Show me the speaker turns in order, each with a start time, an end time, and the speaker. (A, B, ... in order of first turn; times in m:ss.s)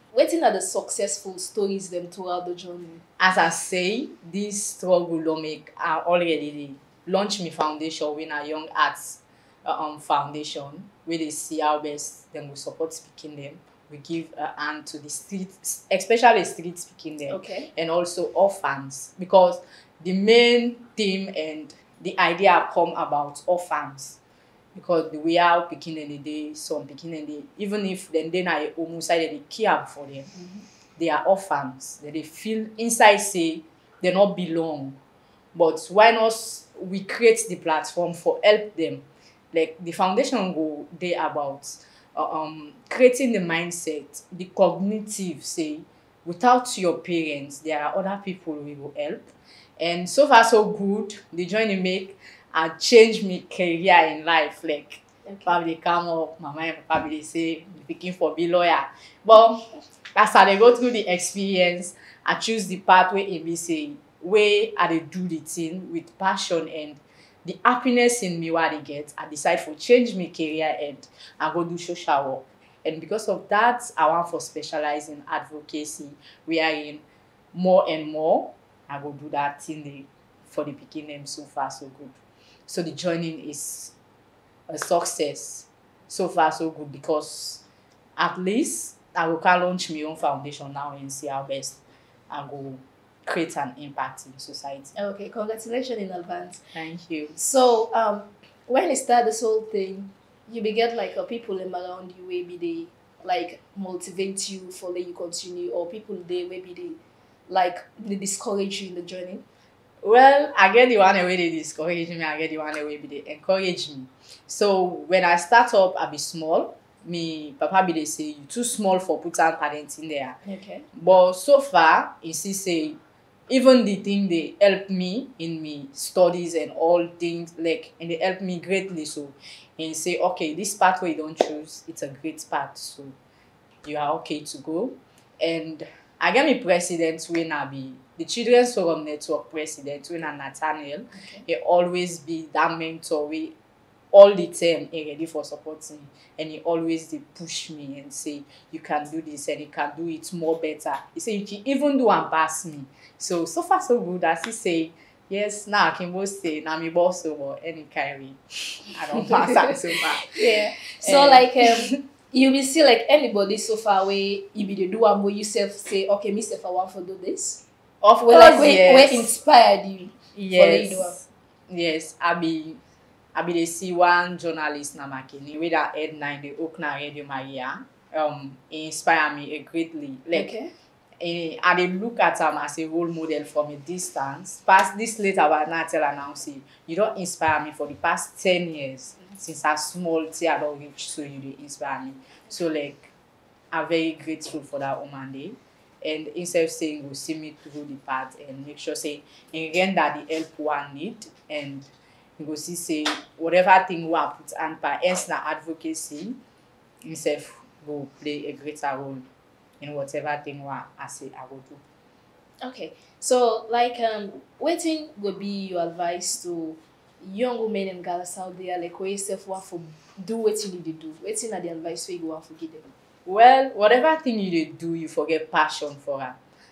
0:00.1-0:03.0 A
0:03.2-0:24.2 B
0:17.3-0:17.7 A
0:24.8-0:30.3 B
0:31.0-0:35.0 B
0:35.5-0:49.2 B
0:49.8-1:22.2 B
1:22.7-1:23.9 B
1:24.7-1:27.6 B
1:28.2-1:34.9 B
1:35.0-1:36.6 A
1:36.7-1:37.4 B
1:37.4-1:47.0 A
1:47.5-1:49.4 A
1:50.0-2:00.4 B
2:00.4-2:00.9 A
2:00.9-2:03.0 B
2:03.5-2:13.2 B
2:13.8-2:23.6 B
2:24.1-2:42.0 B
2:40.3-2:47.6 A
2:48.0-2:49.3 B
2:48.2-2:51.2 A
2:50.4-2:52.8 B
2:53.4-3:00.5 B
3:00.3-3:00.7 A
3:01.2-3:13.1 B
3:13.7-3:26.4 B
3:27.0-3:29.3 B
3:29.8-3:31.8 B
3:32.6-3:42.9 A
3:43.2-3:46.4 B